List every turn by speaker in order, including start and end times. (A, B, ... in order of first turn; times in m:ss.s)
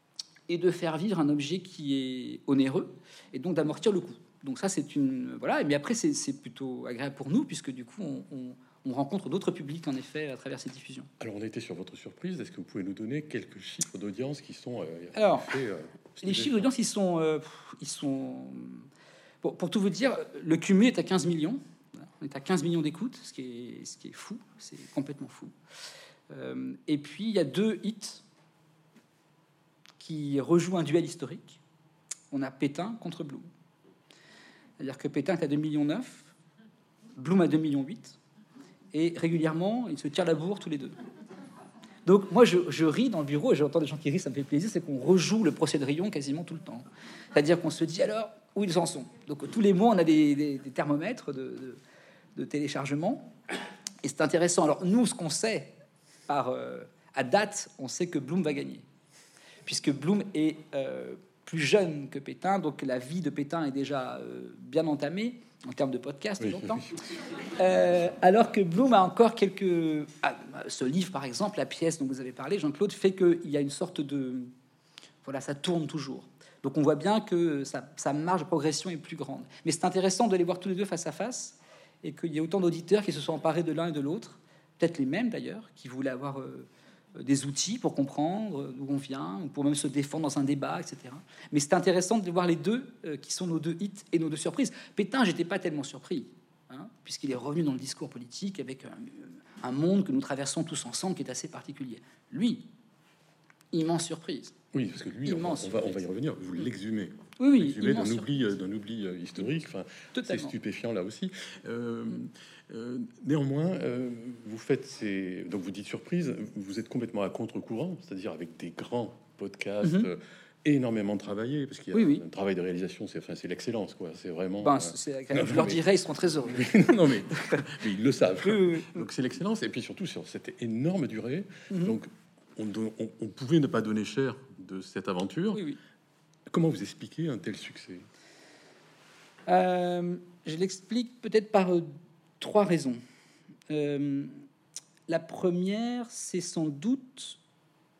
0:00.5-0:11.1 A
0:11.2-0:16.7 B
0:15.1-0:15.6 A
0:16.2-0:18.9 A
0:19.4-0:25.5 A
0:26.3-0:28.2 A
0:30.0-0:31.6 A
0:32.3-0:33.5 A
0:34.8-0:36.3 A
0:37.2-0:38.2 A
0:38.9-0:40.9 A
0:42.0-0:51.8 A
0:52.4-0:53.3 A
0:54.0-0:55.7 A
0:56.3-0:58.9 A
0:59.6-1:06.9 A
1:06.4-1:07.0 B
1:07.5-1:14.5 A
1:15.2-1:42.7 A
1:43.7-1:44.5 A
1:44.7-2:05.9 B
1:45.2-1:46.0 A
1:47.4-1:48.3 A
1:50.1-1:50.5 A
2:01.9-2:02.2 A
2:04.6-2:07.6 A
2:06.5-2:15.6 B
2:08.4-2:09.0 A
2:11.7-2:12.0 A
2:15.5-2:15.8 A
2:16.5-2:18.1 B
2:19.5-2:23.0 A
2:23.7-2:24.4 A
2:25.1-2:27.4 A